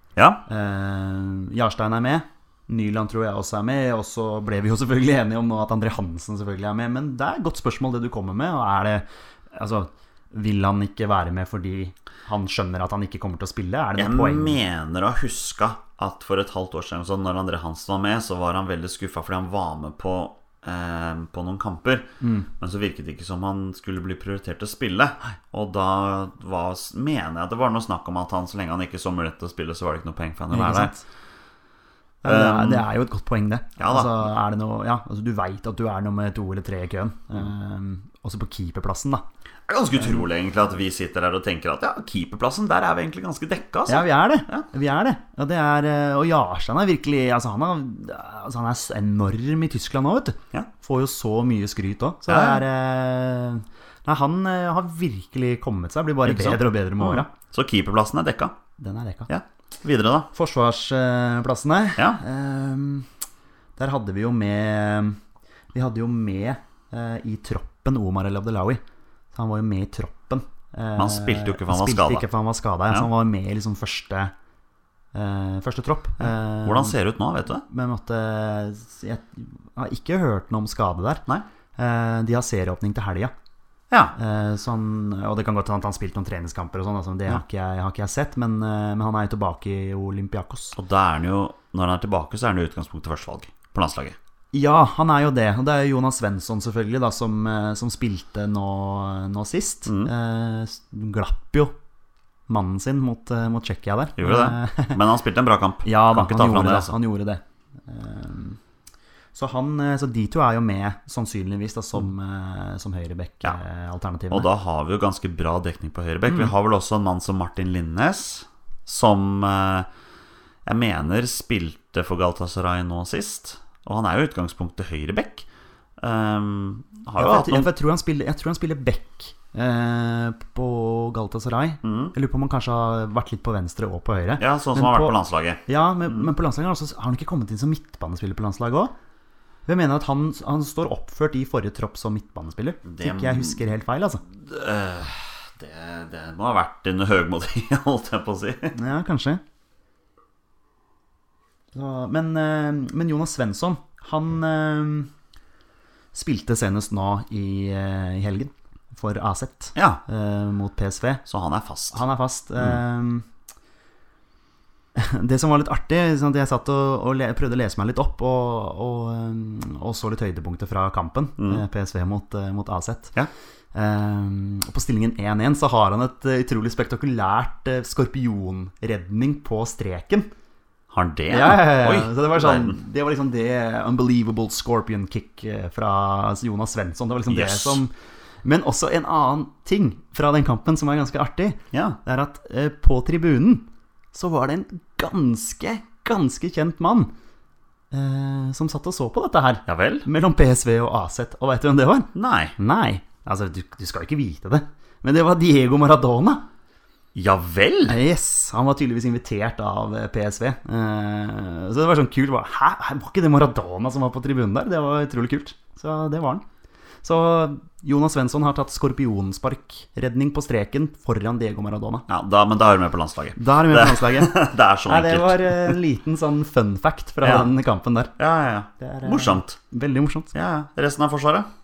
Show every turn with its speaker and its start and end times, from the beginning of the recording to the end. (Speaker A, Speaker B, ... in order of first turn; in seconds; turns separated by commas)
Speaker A: 0.1-0.4, Speaker B: 0.5-14.6, Speaker A: 14.0-22.1, Speaker B: 22.2-22.5, Speaker A: 22.6-30.9, Speaker B: 30.5-31.0, Speaker B: 32.2-39.2, Speaker A: 32.2-32.9, Speaker A: 33.8-34.2, Speaker A: 39.7-44.6, Speaker B: 43.9-57.3, Speaker A: 52.3-52.6, Speaker A: 56.2-58.5, Speaker B: 58.8-59.3, Speaker A: 59.3-60.3, Speaker B: 60.3-63.1, Speaker B: 63.8-65.2, Speaker B: 65.7-68.8, Speaker B: 69.3-74.3, Speaker A: 71.0-72.3, Speaker B: 75.1-77.0, Speaker A: 76.2-77.6, Speaker B: 77.7-81.2, Speaker B: 81.8-83.3, Speaker A: 83.9-84.1, Speaker B: 84.1-90.8, Speaker A: 90.8-94.2, Speaker B: 94.5-101.7, Speaker A: 99.8-100.1, Speaker B: 102.5-105.0, Speaker A: 104.2-106.9, Speaker B: 105.8-108.6, Speaker B: 109.3-114.5, Speaker A: 114.3-119.9, Speaker B: 116.3-116.5, Speaker A: 120.6-125.5, Speaker A: 126.0-127.7, Speaker B: 127.2-138.9, Speaker A: 131.8-132.1, Speaker A: 134.4-136.2, Speaker B: 139.7-144.2, Speaker A: 142.8-143.6, Speaker A: 144.3-148.7, Speaker B: 148.7-149.4, Speaker B: 151.7-155.1, Speaker B: 156.1-161.2, Speaker A: 159.8-160.0, Speaker A: 161.3-162.0, Speaker B: 161.9-163.2, Speaker B: 164.9-173.1, Speaker A: 171.4-171.6, Speaker B: 173.7-180.3, Speaker A: 180.9-182.8, Speaker B: 181.3-187.9, Speaker A: 187.3-187.8, Speaker B: 188.4-197.1, Speaker A: 191.7-192.0, Speaker B: 197.9-206.4, Speaker A: 199.7-200.1, Speaker A: 202.1-202.5, Speaker A: 207.1-208.0, Speaker B: 207.8-216.4, Speaker B: 217.0-222.1, Speaker A: 222.1-225.8, Speaker B: 223.3-228.1, Speaker A: 227.2-227.5, Speaker A: 228.2-229.6, Speaker B: 228.8-230.3, Speaker A: 230.3-231.5